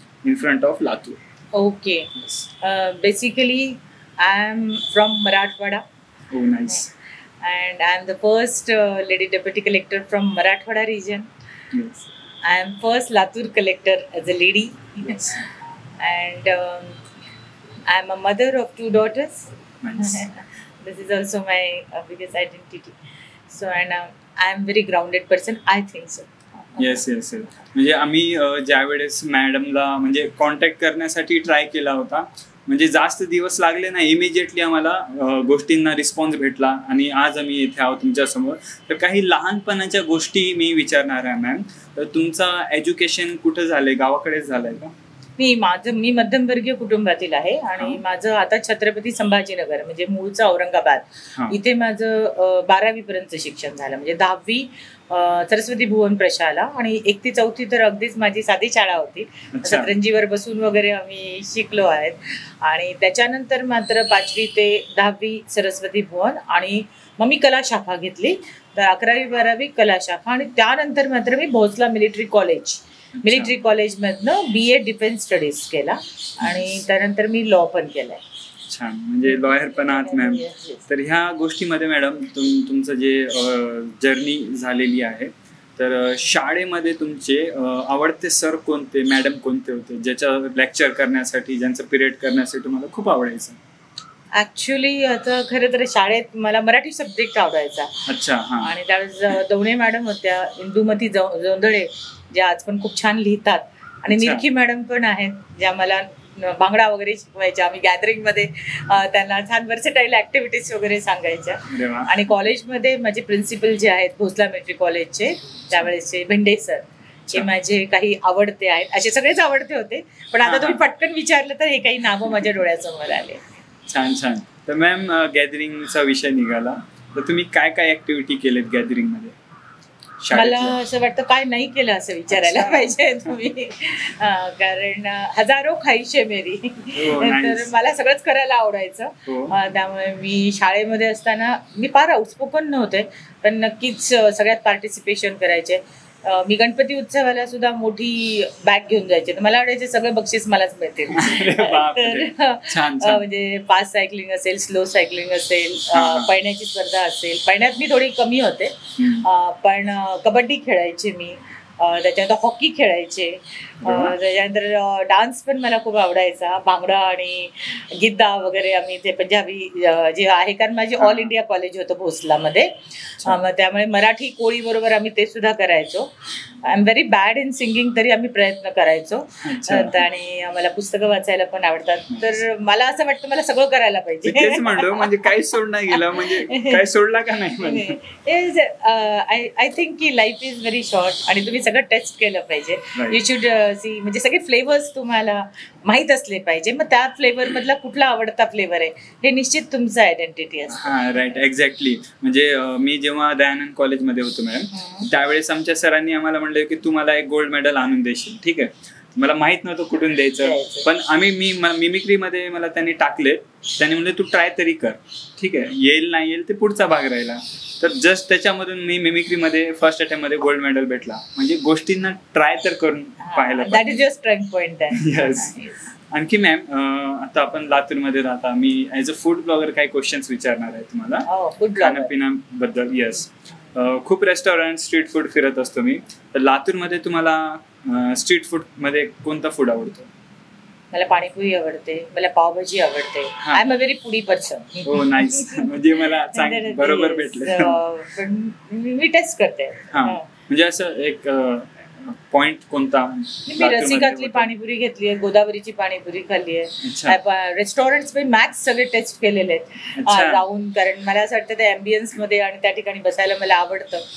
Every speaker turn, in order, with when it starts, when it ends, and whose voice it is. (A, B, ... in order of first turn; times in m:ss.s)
0:00.2-0:01.2 A
0:01.5-0:05.8 B
0:02.2-0:02.5 A
0:06.3-0:06.9 A
0:07.4-0:11.3 B
0:11.7-0:12.1 A
0:12.4-0:15.4 B
0:16.0-0:17.0 B
0:17.9-0:23.0 B
0:19.8-0:20.3 A
0:23.5-0:27.0 B
0:26.8-0:44.9 A
0:45.4-1:18.2 B
0:59.5-0:59.9 A
1:13.2-1:13.5 A
1:16.4-1:16.7 A
1:18.7-1:33.6 A
1:19.2-1:20.8 B
1:34.3-1:38.1 B
1:38.1-1:38.7 A
1:38.6-2:03.4 B
1:44.1-1:44.4 A
1:51.7-1:52.2 A
2:00.4-2:00.8 A
2:03.9-2:09.4 A
2:10.2-2:10.8 A
2:10.3-3:05.4 B
2:12.3-2:13.0 A
2:16.9-2:17.7 A
2:19.3-2:19.6 A
2:31.1-2:33.3 A
2:35.9-2:36.3 A
2:39.0-2:39.3 A
2:43.8-2:44.2 A
2:51.0-2:51.3 A
2:59.4-3:00.1 A
3:02.1-3:02.4 A
3:04.2-3:08.0 A
3:05.9-3:06.8 B
3:07.6-3:21.0 B
3:13.0-3:13.2 A
3:20.7-3:44.1 A
3:24.7-3:25.1 B
3:30.4-3:30.9 B
3:43.2-3:45.9 B
3:44.9-4:00.1 A
3:51.3-3:52.1 B
4:00.9-4:05.7 B
4:04.8-4:07.8 A
4:06.3-4:10.2 B
4:09.9-4:14.5 A
4:13.5-4:24.0 B
4:16.8-4:17.2 A
4:20.0-4:20.4 A